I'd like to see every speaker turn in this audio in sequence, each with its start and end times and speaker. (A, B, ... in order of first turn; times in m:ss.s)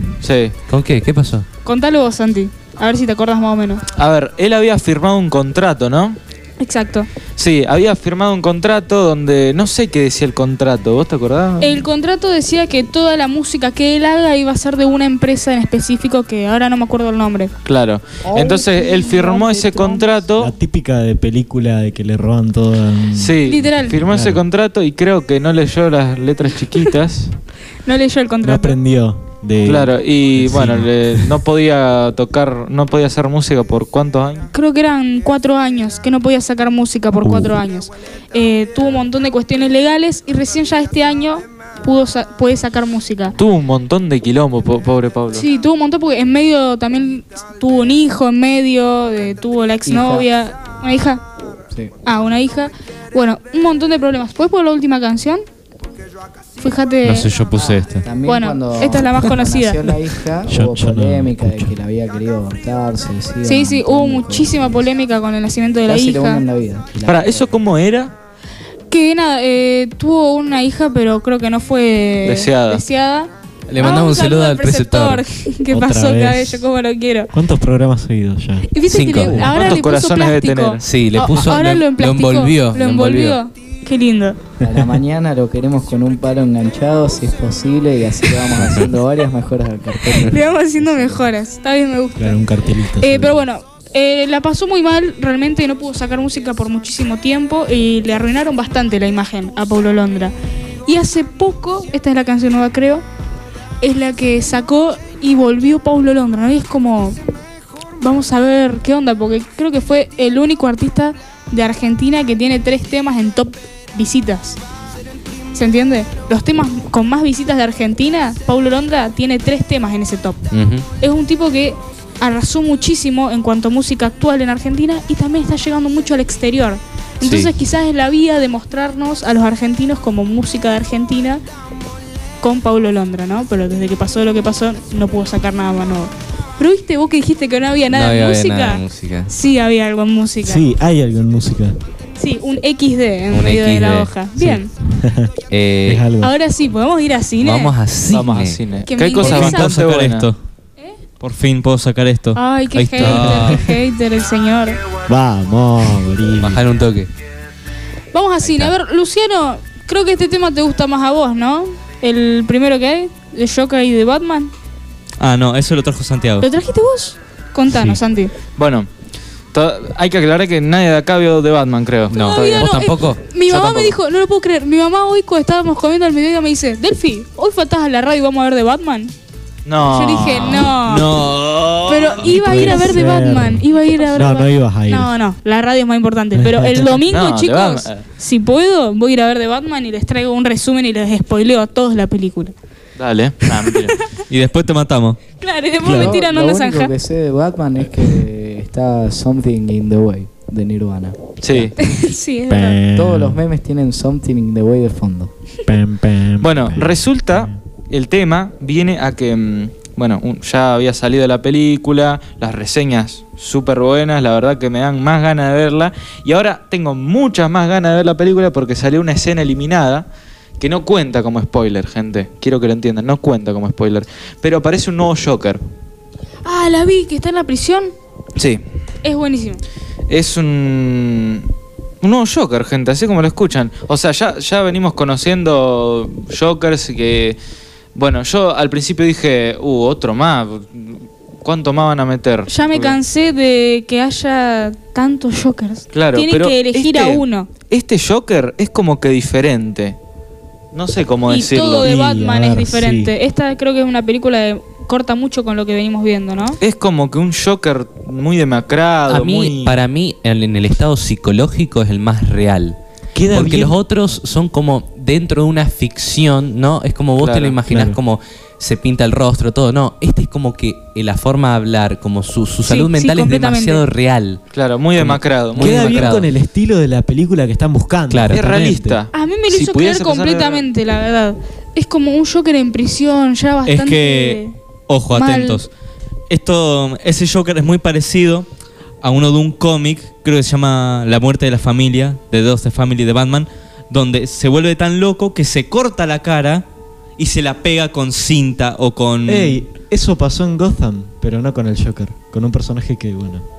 0:00.2-0:00.5 A
0:00.7-0:01.4 B
0:01.6-0:03.8 C
0:03.9-0:06.2 A
0:06.6-0:07.1 C
0:07.4-0:11.8 A
0:11.6-0:17.5 C
0:17.6-0:20.5 A
0:18.2-0:20.2 D
0:20.4-0:24.4 E
0:23.1-0:27.3 A
0:23.4-0:24.0 C
0:27.8-0:28.8 C
0:28.4-0:31.4 E
0:29.6-0:34.5 A
0:34.5-0:43.4 C
0:37.2-0:37.6 E
0:43.4-0:45.4 A
0:45.3-0:51.2 C
0:49.8-0:50.3 D
0:52.0-0:55.4 C
0:56.6-0:57.3 C
0:57.0-0:58.0 F
0:57.5-1:04.9 D
0:58.2-1:00.0 C
1:00.5-1:01.7 E
1:03.4-1:06.4 C
1:05.9-1:07.5 D
1:07.0-1:08.1 A
1:08.9-1:17.3 C
1:12.2-1:12.8 A
1:13.7-1:15.2 B
1:15.7-1:16.6 E
1:17.3-1:19.5 E
1:18.7-1:24.4 C
1:18.9-1:19.6 B
1:19.5-1:20.9 A
1:20.8-1:23.4 B
1:24.6-1:25.0 E
1:24.6-1:31.3 D
1:30.2-1:32.4 C
1:32.2-1:33.4 E
1:33.0-1:40.3 C
1:40.8-1:43.0 C
1:43.8-1:47.2 C
1:48.0-1:54.6 C
1:55.5-2:00.4 C
2:00.5-2:00.9 B
2:01.0-2:11.4 C
2:07.2-2:07.5 B
2:12.4-2:20.6 C
2:17.9-2:19.3 B
2:20.4-2:21.8 E
2:22.2-2:24.7 C
2:23.3-2:24.1 B
2:24.4-2:25.3 E
2:25.5-2:26.0 B
2:25.8-2:26.3 E
2:26.2-2:27.8 C
2:27.4-2:28.6 B
2:28.1-2:30.3 A
2:28.8-2:29.7 C
2:29.2-2:30.4 F
2:31.2-2:33.6 F
2:32.3-2:34.8 C
2:33.0-2:33.6 B
2:35.1-2:36.7 E
2:36.4-2:37.1 B
2:38.1-2:44.5 C
2:38.4-2:38.7 B
2:45.2-2:46.4 F
2:46.4-2:48.3 C
2:48.6-2:48.9 A
2:49.5-2:52.9 A
2:52.1-2:53.2 B
2:52.1-2:59.1 C
2:53.5-2:53.9 A
2:59.6-3:02.3 A
2:59.8-3:01.2 C
3:00.8-3:02.2 F
3:01.9-3:12.5 C
3:02.2-3:05.1 E
3:06.4-3:07.0 E
3:07.0-3:08.0 A
3:13.0-3:14.0 A
3:14.3-3:15.2 F
3:15.4-3:16.9 C
3:15.8-3:16.2 E
3:15.8-3:21.3 D
3:21.4-3:21.8 A
3:21.8-3:22.8 C
3:22.5-3:23.4 E
3:22.9-3:25.3 D
3:25.7-3:27.6 E
3:26.4-3:45.6 A
3:46.4-3:47.9 C
3:48.4-3:48.6 A
3:49.0-3:49.6 C
3:50.1-3:51.5 A
3:52.0-3:57.4 A
3:57.9-4:03.0 A
4:02.5-4:07.5 C
4:05.9-4:10.0 A
4:10.7-4:11.9 A
4:11.3-4:16.6 C
4:11.8-4:13.1 E
4:16.6-4:19.8 A
4:19.1-4:22.8 B
4:23.1-4:23.8 E
4:23.3-4:34.4 B
4:27.2-4:27.6 A
4:27.7-4:28.0 E
4:32.6-4:33.8 C
4:34.5-4:36.2 A
4:35.0-4:36.3 B
4:35.6-4:39.0 E
4:38.1-4:38.4 B
4:38.3-4:40.7 A
4:39.1-4:44.5 C
4:43.6-4:45.7 F
4:45.1-4:45.6 C
4:46.3-4:48.4 F
4:49.0-4:56.6 F
4:57.2-4:59.6 F
4:59.3-5:03.4 E